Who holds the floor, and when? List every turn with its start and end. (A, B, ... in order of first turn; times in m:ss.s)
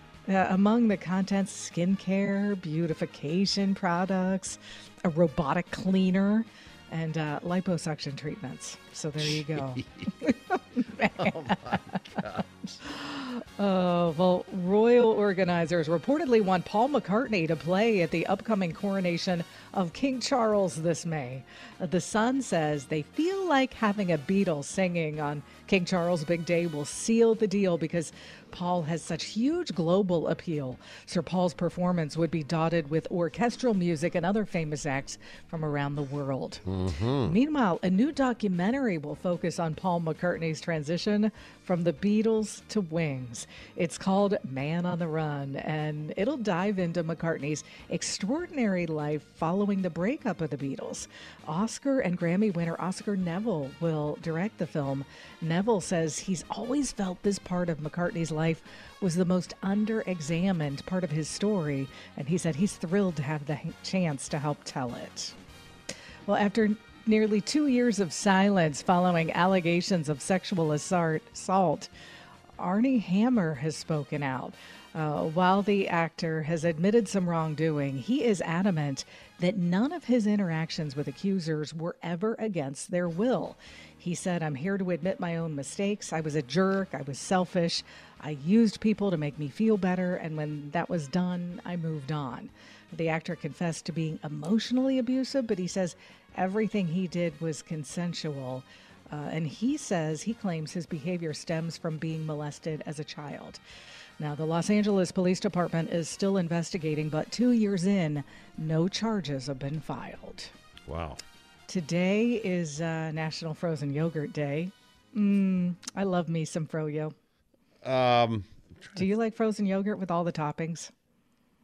0:00.3-0:36.6 A
0:09.3-0:10.1 B
0:11.2-0:12.4 B
0:36.6-0:37.4 B
0:37.2-1:05.3 A
1:06.2-1:11.9 A
1:12.6-1:43.6 A
1:44.2-1:50.5 A
1:50.9-1:51.2 B
1:51.7-1:57.1 A
1:57.8-1:59.1 B
1:59.0-2:00.9 A